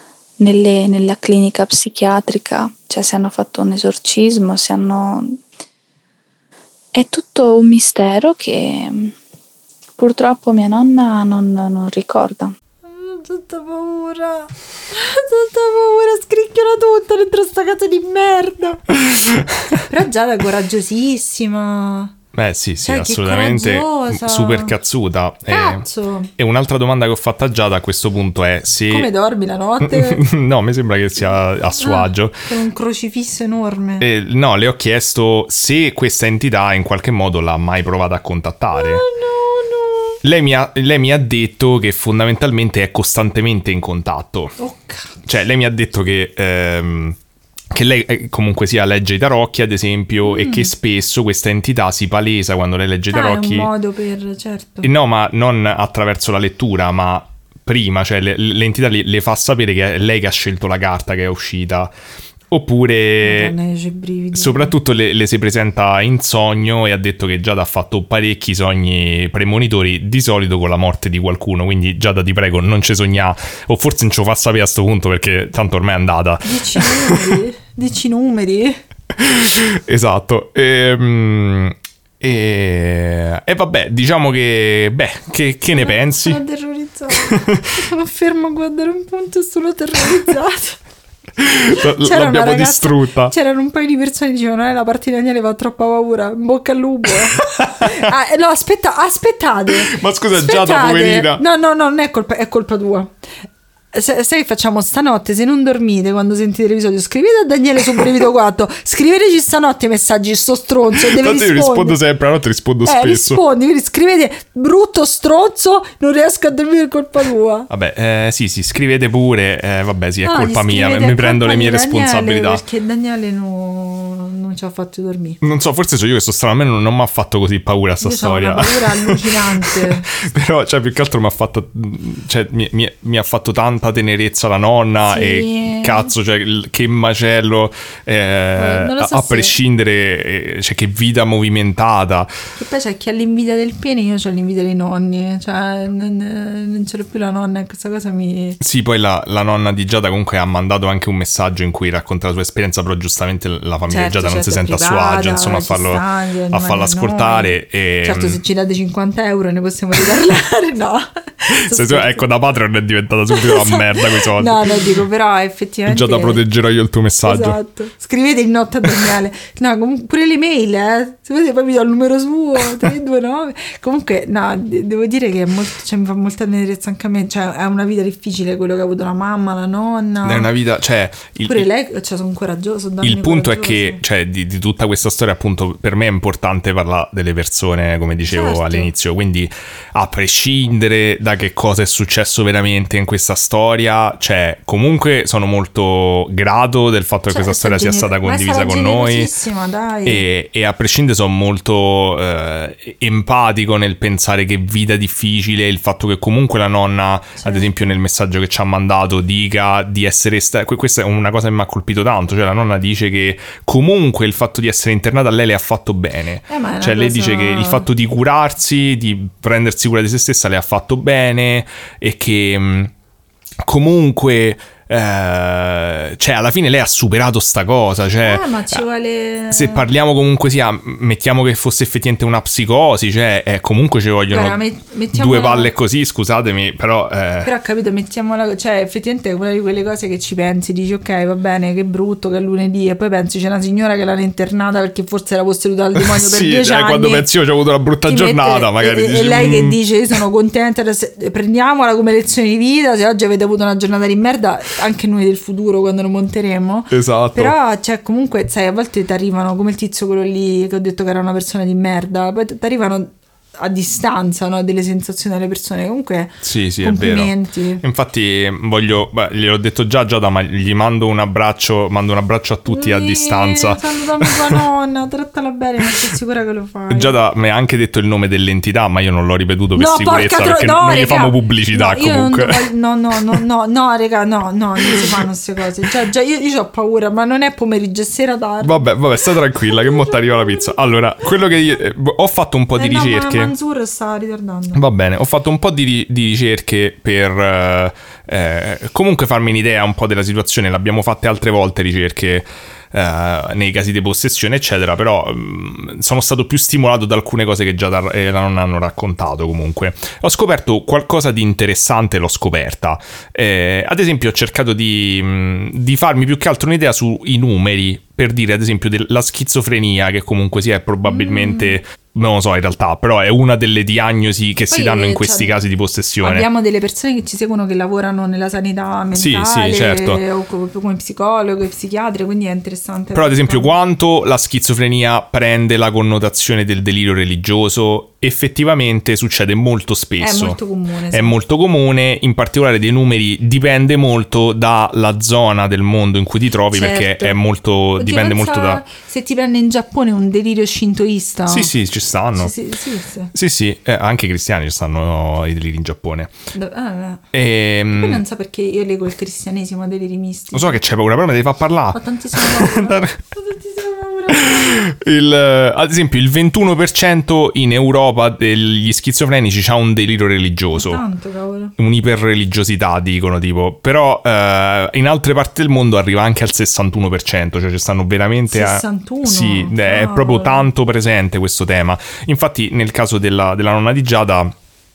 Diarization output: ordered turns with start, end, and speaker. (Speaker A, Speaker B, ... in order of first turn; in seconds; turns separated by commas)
Speaker A: 0.4-5.4, Speaker A: 6.9-9.2, Speaker A: 10.0-12.6, Speaker B: 12.8-18.9, Speaker C: 19.0-19.8, Speaker B: 19.7-22.1, Speaker C: 22.3-25.8, Speaker B: 22.8-24.8, Speaker B: 25.5-26.3, Speaker C: 26.4-29.1, Speaker B: 28.9-30.2, Speaker C: 29.8-32.5, Speaker B: 31.8-34.1, Speaker C: 34.0-39.0, Speaker B: 38.7-40.2, Speaker C: 40.2-44.5, Speaker B: 44.6-45.1, Speaker C: 45.2-47.2, Speaker C: 47.7-53.7, Speaker B: 50.2-50.7, Speaker B: 53.1-54.9, Speaker C: 54.8-61.9, Speaker C: 62.5-63.6, Speaker B: 63.2-64.8, Speaker C: 64.3-77.4, Speaker B: 76.5-78.8, Speaker C: 79.2-86.4, Speaker B: 85.8-90.8, Speaker C: 87.2-87.8, Speaker C: 91.4-93.3, Speaker B: 91.7-103.1, Speaker C: 97.3-97.9, Speaker C: 99.9-101.4, Speaker B: 103.9-112.0, Speaker C: 111.0-113.4, Speaker B: 112.8-117.7, Speaker C: 117.7-122.6, Speaker B: 120.2-125.4, Speaker C: 125.4-142.3, Speaker B: 128.0-130.1, Speaker B: 135.1-136.1, Speaker B: 138.6-139.6, Speaker B: 142.6-148.6, Speaker C: 148.6-158.4, Speaker B: 153.9-162.3, Speaker C: 161.6-164.9, Speaker B: 163.3-166.4, Speaker C: 165.9-167.6, Speaker B: 167.2-180.5, Speaker C: 180.2-181.7, Speaker B: 181.4-184.0, Speaker C: 183.0-199.3, Speaker B: 188.3-188.9, Speaker B: 197.3-200.2, Speaker C: 200.1-222.9, Speaker B: 207.4-207.7, Speaker B: 216.5-217.9, Speaker C: 223.6-228.4, Speaker B: 228.2-229.8, Speaker C: 229.5-234.6, Speaker B: 234.3-235.7, Speaker C: 235.1-237.5, Speaker B: 237.4-247.3, Speaker C: 245.9-249.8, Speaker B: 248.1-267.8, Speaker C: 256.9-257.5, Speaker C: 266.4-274.6, Speaker B: 272.7-277.2, Speaker C: 276.9-282.7, Speaker B: 279.8-290.8, Speaker C: 285.0-285.3, Speaker C: 288.6-293.5, Speaker B: 292.8-294.8, Speaker C: 294.7-326.5, Speaker B: 321.1-321.8, Speaker B: 324.7-325.6, Speaker B: 326.2-333.7, Speaker C: 329.1-330.2, Speaker C: 333.1-340.6, Speaker B: 340.2-341.4, Speaker C: 341.1-348.9, Speaker B: 346.7-347.4, Speaker B: 348.0-351.7, Speaker C: 351.5-352.5, Speaker B: 352.4-353.3, Speaker C: 353.3-356.3, Speaker B: 356.5-357.2, Speaker C: 357.3-358.2, Speaker B: 357.9-360.8, Speaker C: 360.5-363.2, Speaker B: 361.9-364.8, Speaker C: 364.3-371.0, Speaker B: 370.7-371.7, Speaker C: 371.8-384.6, Speaker B: 378.5-380.7